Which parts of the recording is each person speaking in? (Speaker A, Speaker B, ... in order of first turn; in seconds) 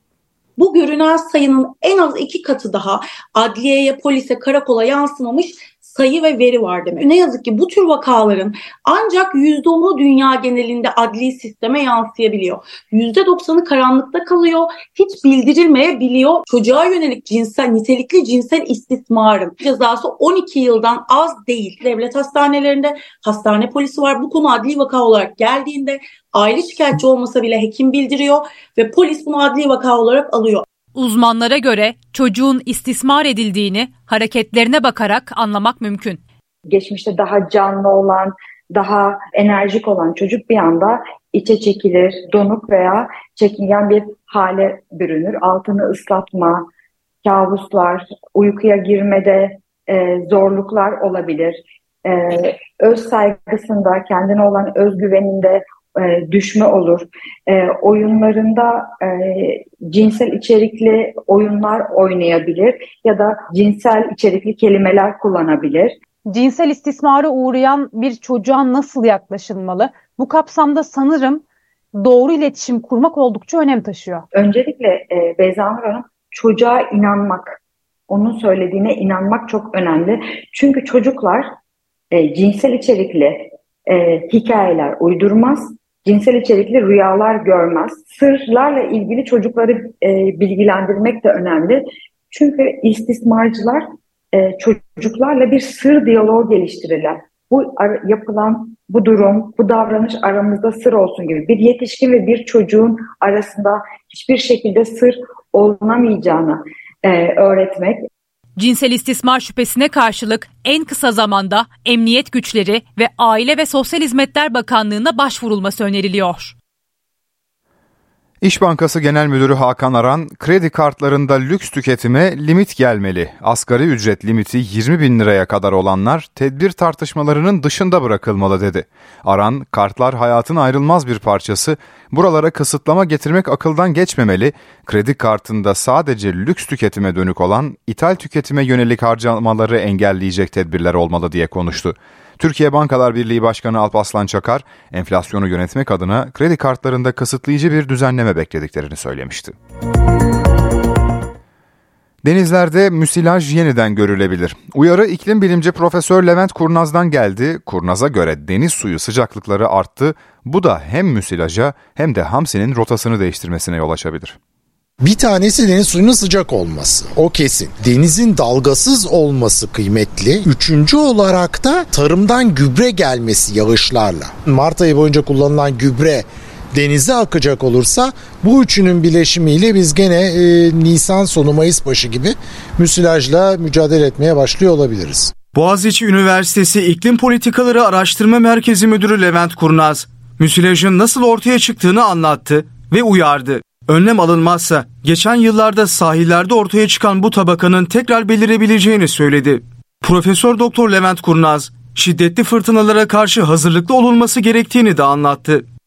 Speaker A: 0.6-30.6
Speaker B: 30.9-36.2, 66.7-67.0, 108.6-116.5
Speaker C: 36.7-46.7, 47.2-66.0, 74.3-77.6, 78.1-81.5, 82.1-108.0
Speaker D: 66.3-71.4, 72.0-74.2
Speaker E: 118.4-149.6, 152.2-164.4
Speaker F: 165.0-185.3
Speaker G: 185.5-205.7